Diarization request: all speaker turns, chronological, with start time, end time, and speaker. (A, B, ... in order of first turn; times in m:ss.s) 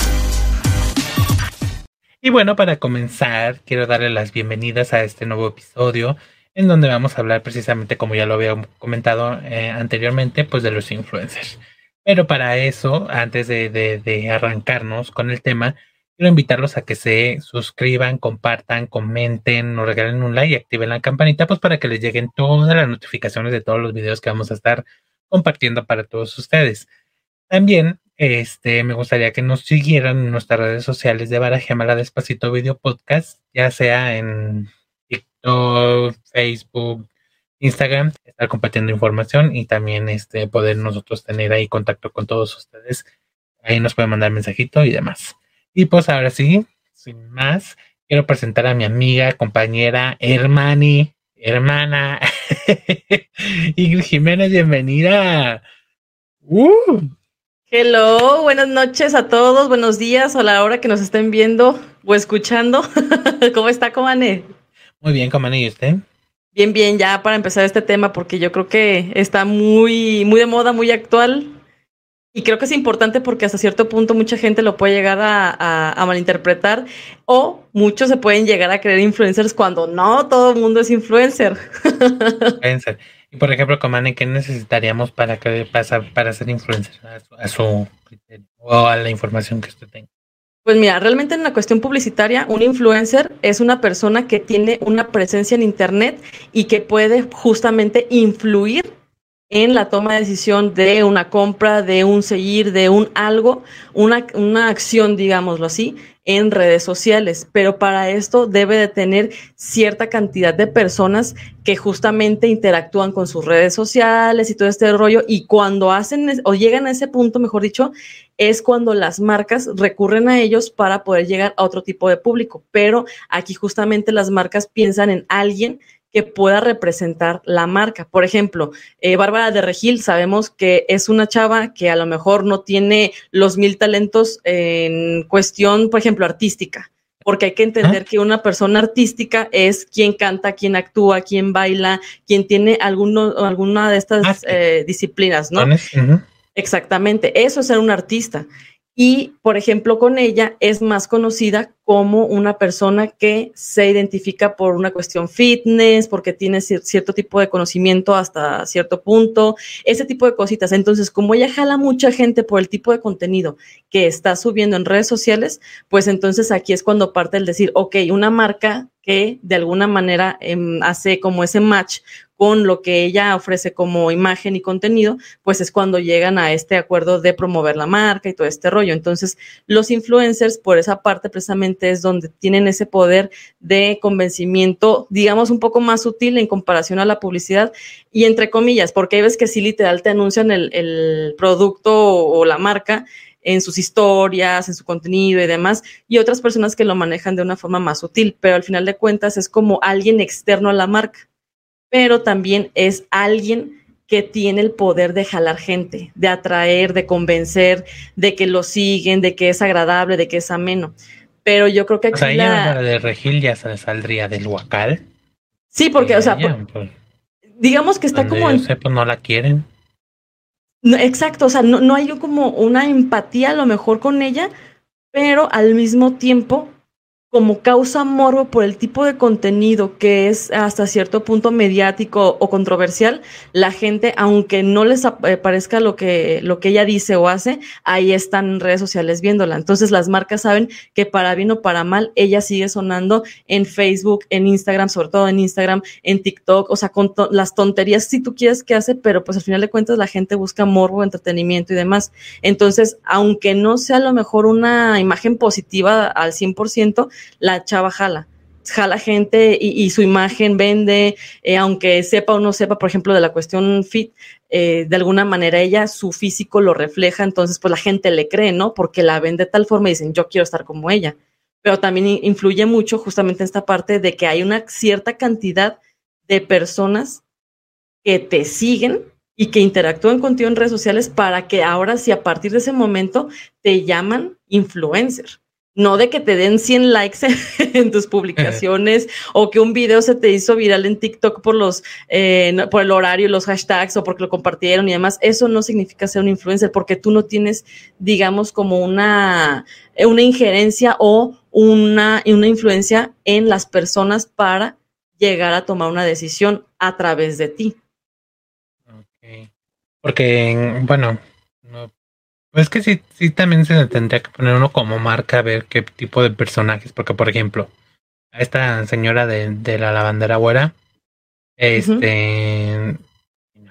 0:02.2-0:26.9 A
0:27.5-0:37.0 A
0:37.6-0:43.0 A
0:43.6-0:55.6 A
0:56.4-0:57.1 A
0:57.7-1:04.4 B
1:05.0-1:06.0 A
1:06.5-1:11.5 B
1:12.3-1:22.6 B
1:22.6-1:30.1 A
1:30.6-1:38.9 B
1:39.5-2:25.7 B
2:24.2-2:24.6 A
2:25.6-2:26.2 A
2:26.5-3:21.2 B
3:21.9-3:32.8 B
3:32.1-3:35.0 A
3:35.7-3:36.5 B
3:36.0-3:36.9 A
3:37.6-3:38.6 B
3:38.1-3:39.6 A
3:40.8-3:44.5 B
3:45.1-3:46.7 B
3:47.3-4:37.2 B
4:38.0-5:07.8 B
4:48.4-4:48.6 A
5:08.9-5:09.5 A
5:10.0-5:11.9 A
5:12.5-5:17.7 A
5:18.3-5:20.7 A
5:21.6-5:23.0 A
5:21.8-5:22.0 B